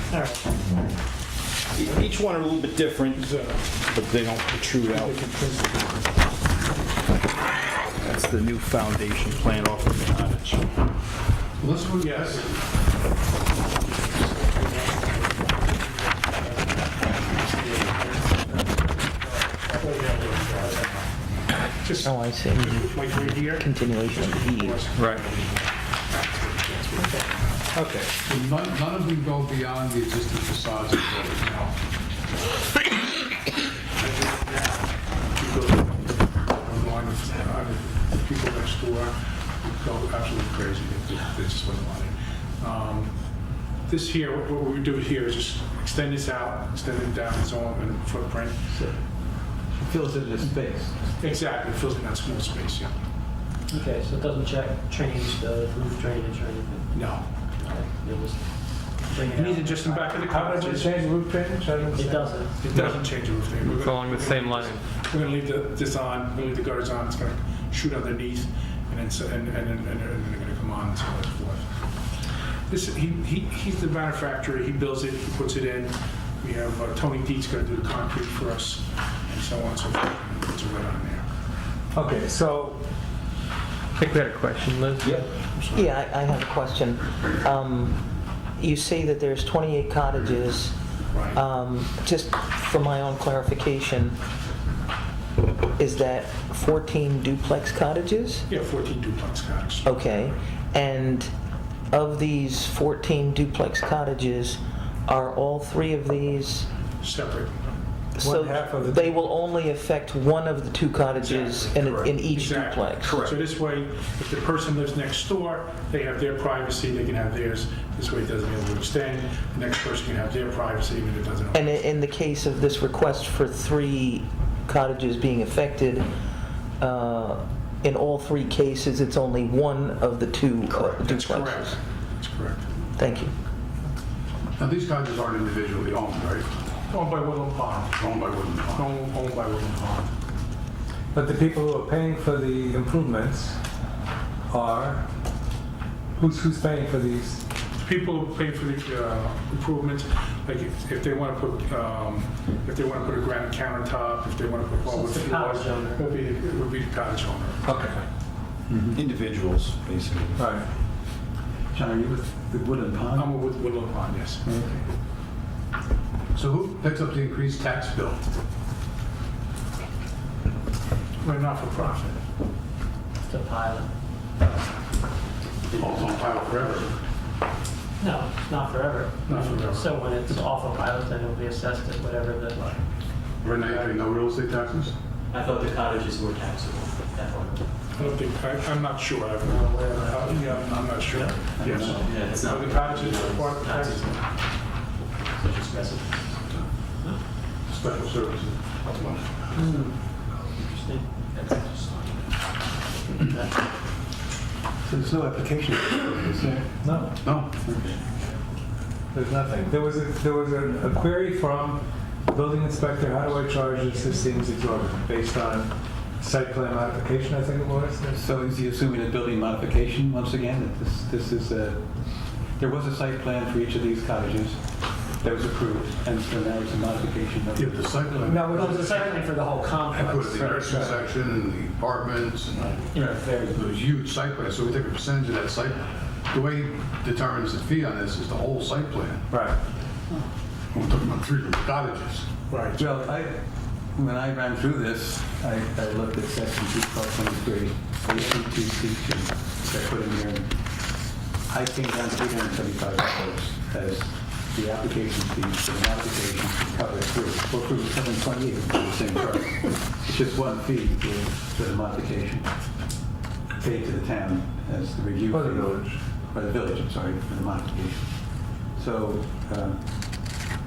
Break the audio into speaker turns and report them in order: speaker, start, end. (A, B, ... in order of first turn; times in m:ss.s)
0:00.1-0:00.7 A
0:01.7-0:05.2 B
0:03.2-0:03.8 C
0:04.9-0:06.3 C
0:07.9-0:10.8 B
0:09.3-0:09.8 C
0:11.6-0:12.6 D
0:12.0-0:12.6 C
0:13.7-0:27.7 C
0:19.4-0:20.8 A
0:22.0-0:24.9 E
0:24.9-0:25.2 F
0:27.0-0:27.3 A
0:27.7-0:28.1 G
0:28.2-0:31.7 D
0:34.0-0:48.6 C
0:48.7-0:51.2 H
0:51.2-0:53.0 C
0:53.7-1:00.3 A
0:56.9-0:57.5 C
0:59.2-1:01.0 C
1:00.1-1:02.6 G
1:01.9-1:02.8 A
1:02.6-1:11.8 C
1:02.8-1:04.8 F
1:12.7-1:21.2 C
1:21.9-1:22.8 G
1:24.0-1:25.2 F
1:25.0-1:25.3 B
1:25.5-1:25.9 C
1:25.7-1:30.8 E
1:31.1-1:31.4 C
1:31.3-1:34.2 E
1:35.8-1:38.4 E
1:38.5-1:40.0 C
1:39.8-1:41.3 E
1:41.9-1:46.7 E
1:47.0-1:47.8 C
1:48.1-1:53.2 E
1:48.2-1:49.2 G
1:51.2-2:01.8 C
1:51.8-1:52.2 B
1:53.0-1:53.4 B
2:01.5-2:06.1 E
2:06.8-2:11.7 E
2:11.0-2:12.6 C
2:13.0-2:13.3 E
2:14.6-2:16.5 D
2:16.9-2:18.0 C
2:18.0-2:18.9 D
2:18.7-2:20.1 C
2:21.1-2:23.6 G
2:24.5-2:25.1 G
2:26.2-2:27.4 G
2:27.8-2:37.6 C
2:34.9-2:36.0 A
2:37.6-2:38.0 G
2:38.7-2:39.0 H
2:38.9-2:40.4 B
2:40.4-2:40.6 G
2:41.7-2:43.5 H
2:43.1-2:44.4 C
2:44.4-2:44.9 H
2:46.3-2:48.2 D
2:51.2-2:52.2 C
2:53.2-2:53.9 A
2:55.7-2:56.9 D
2:55.8-2:56.7 A
2:58.0-3:02.8 A
2:59.3-2:59.8 D
3:03.4-3:04.9 D
3:03.5-3:04.0 A
3:05.3-3:07.4 I
3:06.8-3:08.2 A
3:07.9-3:14.1 C
3:09.4-3:12.6 A
3:11.5-3:12.0 H
3:11.6-3:12.0 D
3:12.0-3:14.0 I
3:13.5-3:14.2 A
3:15.4-3:16.3 I
3:16.0-3:16.3 A
3:17.6-3:19.8 D
3:19.5-3:21.7 A
3:21.3-3:22.2 I
3:23.1-3:23.6 A
3:24.8-3:26.9 H
3:26.8-3:27.2 G
3:27.2-3:27.6 D
3:27.6-3:28.0 H
3:29.1-3:38.3 G
3:38.1-3:48.8 H
3:47.6-3:49.1 D
3:48.3-3:50.9 A
3:49.9-3:52.8 D
3:50.4-3:50.9 G
3:52.9-3:53.7 H
3:53.5-3:59.3 D
3:59.3-3:59.6 G
4:00.7-4:02.3 D
4:02.5-4:03.1 C
4:02.7-4:22.8 H
4:23.5-4:30.5 H
4:25.3-4:26.0 G